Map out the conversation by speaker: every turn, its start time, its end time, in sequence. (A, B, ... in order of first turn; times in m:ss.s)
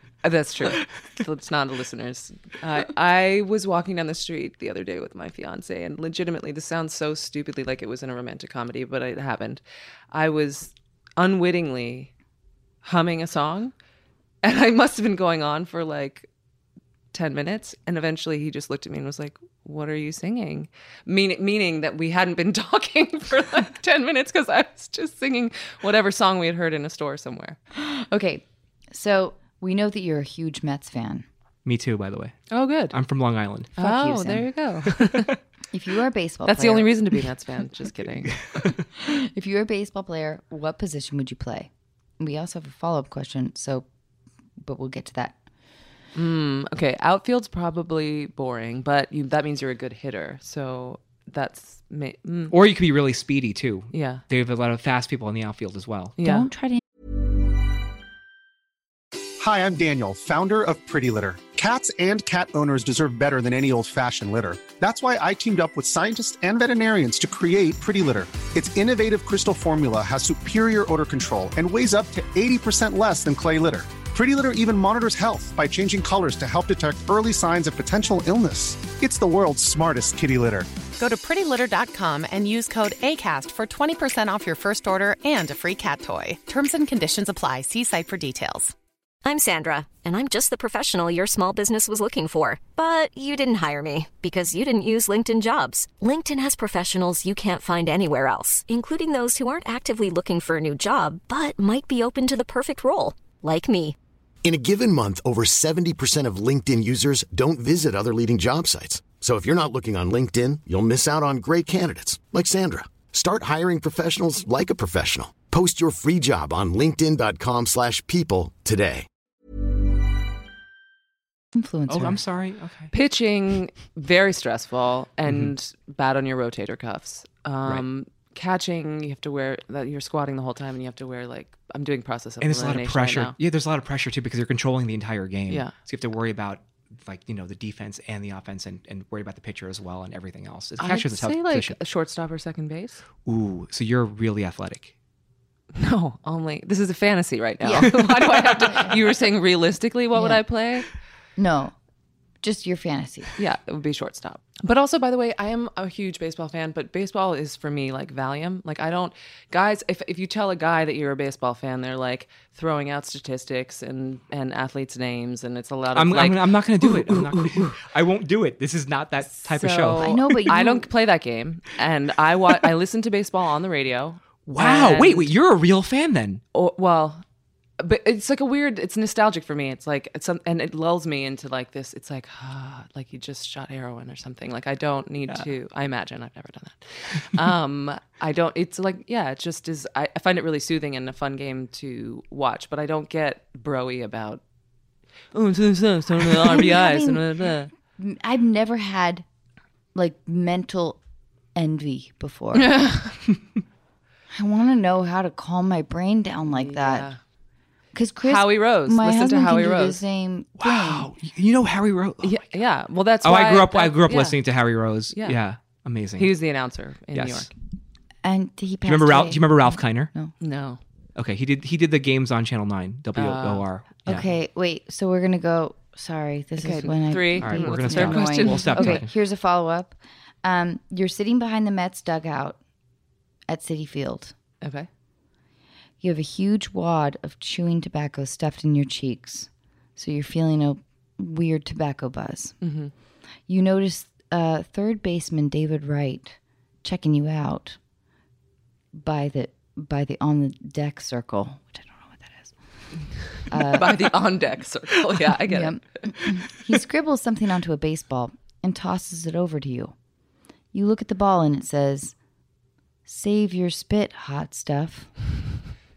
0:00.2-0:09.6 A
0:10.1-0:12.1 A
0:12.8-0:13.7 A
0:14.4-0:16.3 A
0:17.1-0:27.6 A
0:27.7-0:31.2 B
0:31.6-0:33.7 C
0:32.5-0:33.0 A
0:33.8-0:35.3 A
0:33.8-0:34.5 B
0:35.0-0:35.3 C
0:35.7-0:36.9 B
0:36.4-0:38.4 A
0:39.0-0:43.8 B
0:44.6-0:45.4 B
0:46.1-0:52.5 A
0:52.5-0:56.1 C
0:53.9-0:54.2 A
0:56.2-0:56.5 A
0:56.2-0:56.8 B
0:59.4-1:20.8 D
1:20.9-1:28.7 E
1:29.2-1:44.0 F
1:44.4-1:59.1 G
2:01.5-2:02.2 B
2:01.9-2:02.9 C
2:02.9-2:13.3 A
2:05.2-2:05.5 C
2:12.4-2:21.8 C
2:20.8-2:23.0 A
2:23.2-2:24.9 C
2:25.7-2:30.9 A
2:27.6-2:27.9 B
2:30.1-2:30.4 B
2:31.4-2:31.7 B
2:32.4-2:33.3 B
2:33.4-2:47.7 A
2:45.9-2:50.2 C
2:49.4-2:55.3 A
2:50.0-2:50.9 B
2:54.4-2:56.4 C
2:56.5-2:57.2 A
2:57.8-3:14.4 A
3:15.3-3:17.7 A
3:16.4-3:17.2 B
3:17.9-3:19.2 B
3:19.9-3:21.0 B
3:21.5-3:22.8 B
3:22.6-3:23.2 A
3:24.3-3:27.1 B
3:26.4-3:27.2 A
3:27.9-3:31.1 B
3:28.2-3:30.0 A
3:30.6-3:32.5 C
3:32.2-3:34.4 A
3:33.2-3:36.3 C
3:35.1-3:35.4 A
3:36.2-3:37.5 A
3:37.1-3:37.5 C
3:38.2-3:40.3 B
3:38.8-3:40.1 C
3:40.4-3:40.8 A
3:41.2-3:44.3 C
3:43.1-3:44.2 A
3:44.0-3:52.6 B
3:46.6-3:49.0 A
3:47.4-3:49.1 C
3:53.5-3:54.3 B
3:54.6-3:54.9 A
3:56.0-4:02.6 B
4:02.6-4:02.9 A
4:03.5-4:07.8 B
4:08.9-4:12.5 B
4:13.5-4:13.9 B
4:13.5-4:16.0 A
4:15.5-4:19.9 B
4:20.7-4:22.1 B
4:23.0-4:25.1 B